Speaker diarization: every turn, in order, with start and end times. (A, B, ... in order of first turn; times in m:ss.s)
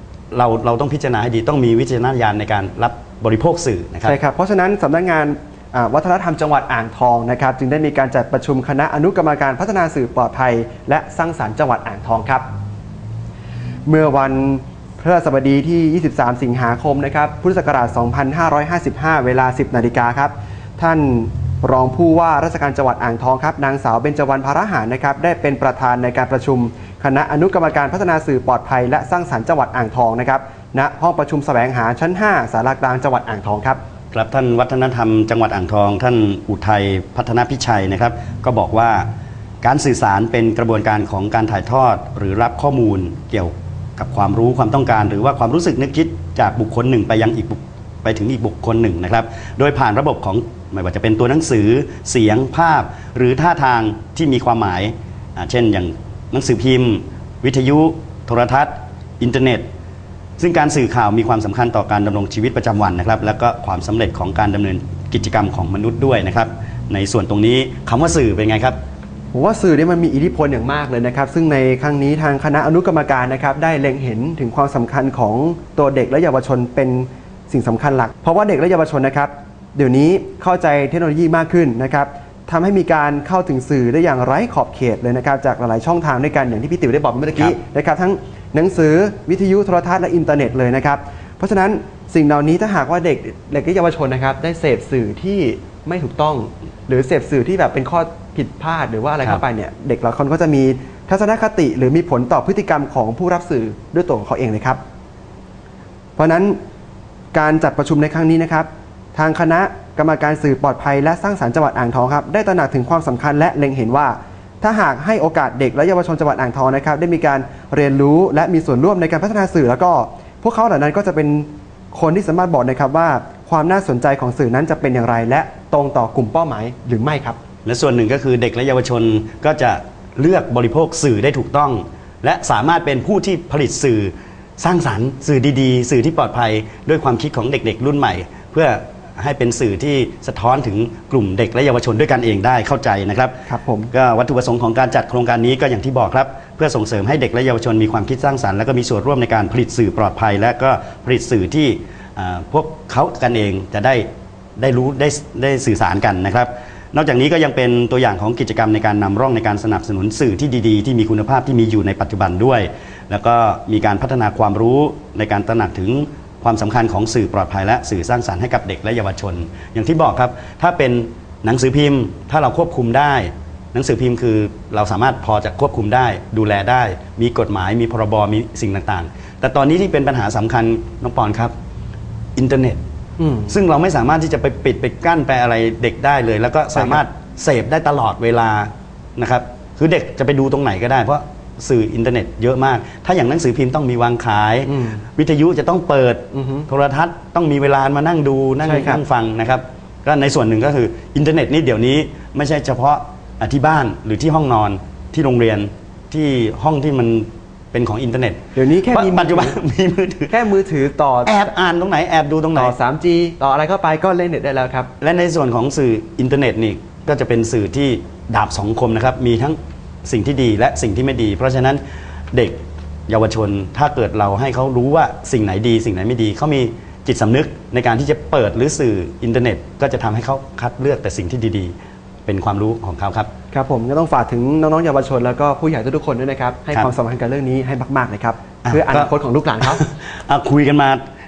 0:00.3-0:04.1 A
0:04.0-0:12.5 B
0:13.8-0:33.8 B
0:34.1-0:39.1 A
0:39.6-0:59.6 A
1:00.4-1:08.8 A
1:09.3-1:44.8 B
1:46.2-1:46.6 B
1:47.3-2:07.4 B
2:07.6-2:23.3 A
2:23.5-2:23.9 B
2:23.9-2:34.0 A
2:34.6-3:01.5 A
3:02.4-3:02.8 A
3:03.2-3:03.5 B
3:03.5-3:30.3 A
3:14.6-3:15.0 B
3:16.3-3:16.7 B
3:18.6-3:19.0 B
3:28.6-3:29.6 B
3:30.3-3:31.3 B
3:31.2-3:32.7 A
3:32.5-3:34.9 B
3:35.0-3:41.8 A
3:42.3-3:51.7 A
3:52.2-3:53.3 A
3:53.5-3:59.8 B
3:58.6-3:59.1 A
3:59.7-4:01.0 A